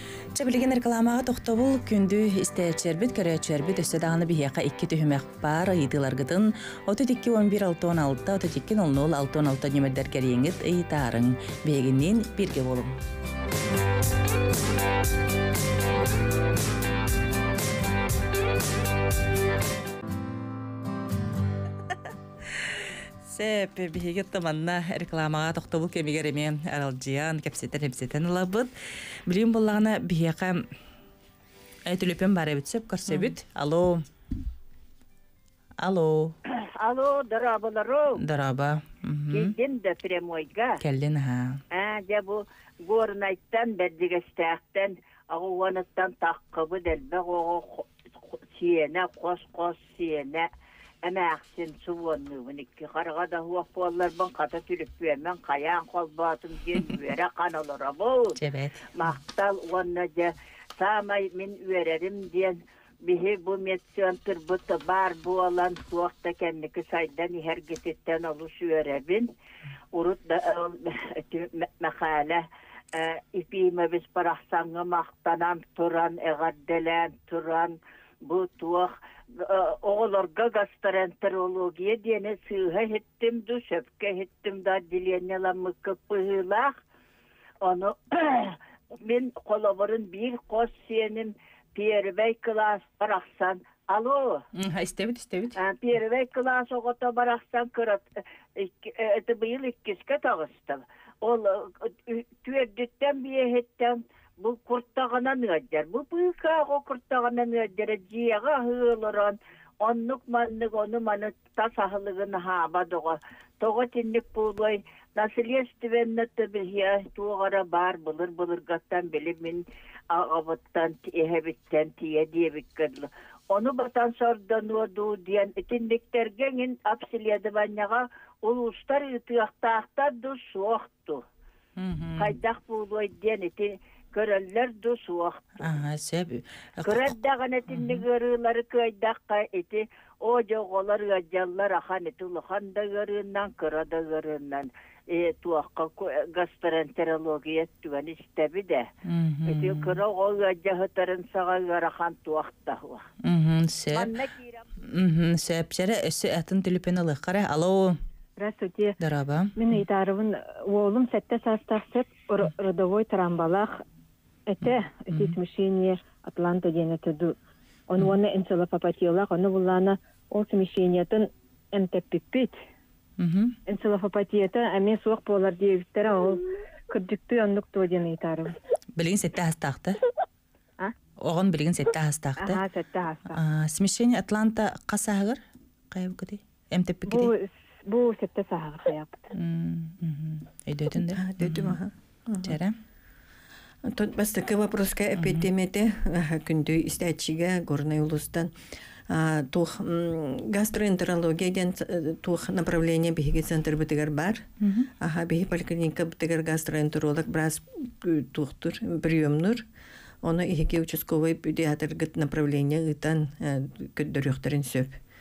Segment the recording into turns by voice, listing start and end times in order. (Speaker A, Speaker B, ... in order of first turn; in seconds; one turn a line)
Speaker A: 0.3-13.0
Speaker A: 22.6-28.7
Speaker A: 29.2-30.6
Speaker A: 31.9-34.0
Speaker A: 35.8-36.3
Speaker B: 36.6-38.2
Speaker A: 38.2-39.5
Speaker B: 39.3-40.8
Speaker A: 40.8-41.6
Speaker B: 41.7-50.5
Speaker B: 51.0-58.4
Speaker A: 58.4-58.9
Speaker B: 58.9-69.3
Speaker B: 69.9-86.7
Speaker B: 87.6-94.4
Speaker A: 94.5-95.6
Speaker B: 95.5-98.0
Speaker B: 98.6-131.2
Speaker A: 131.8-132.3
Speaker B: 132.2-135.7
Speaker A: 135.6-137.1
Speaker B: 136.8-148.9
Speaker A: 137.7-138.0
Speaker A: 149.0-150.0
Speaker B: 149.4-153.1
Speaker A: 153.2-154.1
Speaker B: 153.9-154.6
Speaker A: 154.8-158.0
Speaker C: 158.4-158.9
Speaker A: 159.0-159.5
Speaker C: 159.6-163.8
Speaker C: 164.5-167.3
Speaker A: 164.6-165.4
Speaker C: 167.9-172.6
Speaker A: 173.2-173.6
Speaker C: 173.7-178.6
Speaker A: 178.9-180.0
Speaker A: 181.2-182.6
Speaker C: 182.4-183.4
Speaker A: 183.3-187.3
Speaker C: 187.1-189.3
Speaker A: 189.3-191.8
Speaker D: 190.9-192.6
Speaker A: 192.4-192.8
Speaker D: 193.8-198.5
Speaker A: 195.2-195.4
Speaker D: 199.1-209.6
Speaker A: 204.6-204.9
Speaker D: 210.2-215.0